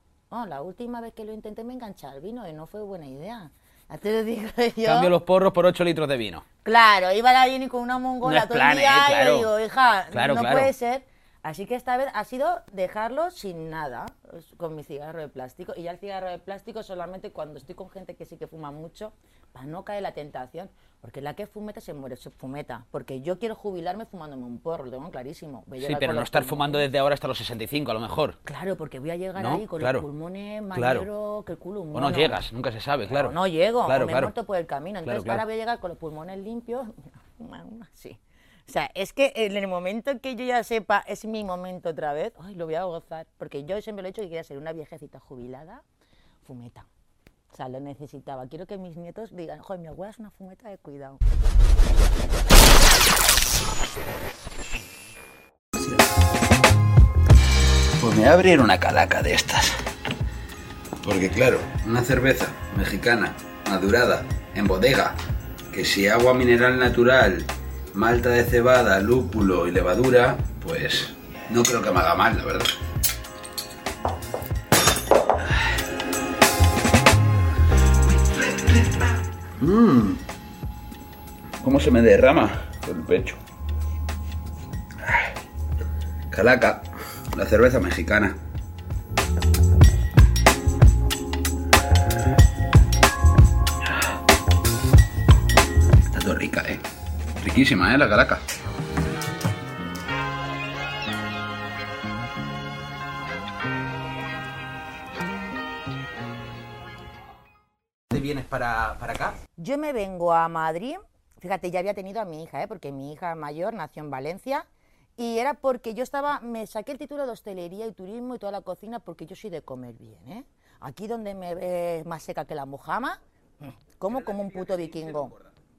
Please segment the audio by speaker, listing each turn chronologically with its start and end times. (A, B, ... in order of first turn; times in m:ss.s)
0:00.3-0:05.1 A
0:04.8-0:06.4 B
0:06.6-0:26.8 A
0:08.2-0:09.5 B
0:10.1-0:10.7 B
0:25.8-0:28.4 B
0:28.4-0:32.4 A
0:29.4-0:30.0 B
0:30.7-0:31.0 B
0:31.9-0:34.3 B
0:33.1-0:45.8 A
0:35.0-0:35.4 B
0:46.4-0:46.9 A
0:47.5-0:51.2 A
0:58.0-0:59.8 B
1:01.0-1:05.1 B
1:05.7-1:12.8 B
1:18.4-1:19.0 B
1:19.6-1:20.2 B
1:21.6-1:23.4 B
1:25.0-1:25.4 B
1:26.3-1:28.4 B
1:33.8-1:34.1 B
1:36.1-1:36.8 B
1:37.4-1:38.4 B
1:48.1-1:49.4 B
1:49.6-1:54.6 A
1:55.2-2:05.3 A
2:04.1-2:05.5 B